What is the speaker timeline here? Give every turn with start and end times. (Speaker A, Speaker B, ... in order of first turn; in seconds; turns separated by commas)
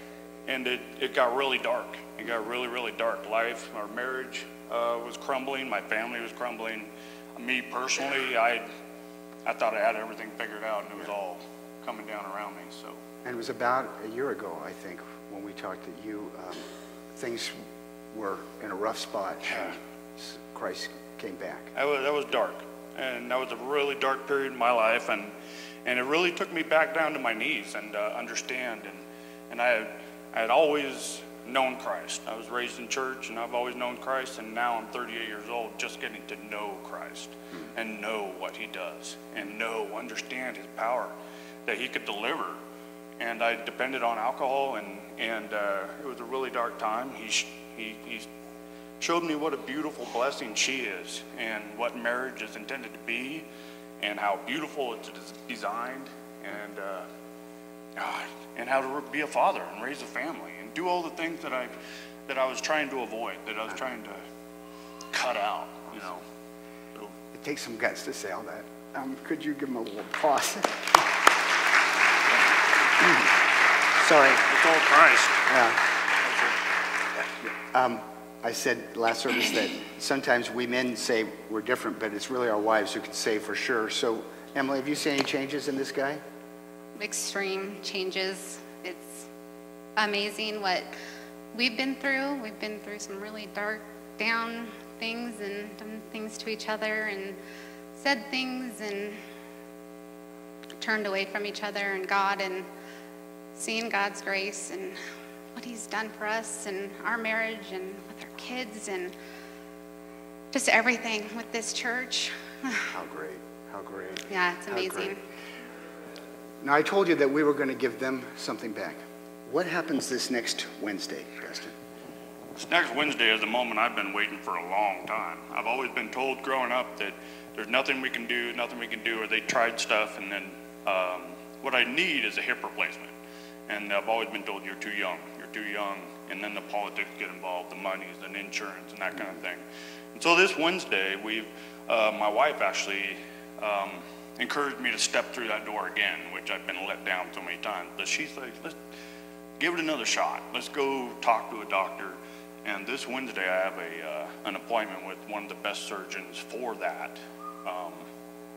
Speaker A: 0.5-8.7, Speaker A: 9.4-13.0, Speaker B: 13.2-16.6, Speaker B: 17.1-17.6, Speaker B: 18.1-21.7, Speaker A: 21.7-25.3, Speaker A: 25.8-41.1, Speaker A: 41.6-42.6, Speaker A: 43.2-48.3, Speaker A: 49.0-53.5, Speaker A: 54.0-57.1, Speaker A: 58.0-61.7, Speaker A: 62.3-64.2, Speaker A: 65.1-66.2, Speaker B: 67.3-70.7, Speaker B: 74.0-74.4, Speaker A: 74.4-75.4, Speaker B: 75.5-75.8, Speaker B: 77.7-86.2, Speaker C: 87.0-89.2, Speaker C: 90.0-90.9, Speaker C: 91.5-97.4, Speaker C: 97.9-99.2, Speaker C: 100.8-102.7, Speaker C: 103.5-105.0, Speaker C: 105.5-109.1, Speaker C: 110.5-112.7, Speaker B: 112.9-115.1, Speaker C: 114.3-115.2, Speaker B: 116.6-121.7, Speaker A: 122.6-133.1, Speaker A: 133.7-139.6, Speaker A: 140.1-148.8, Speaker A: 149.6-158.1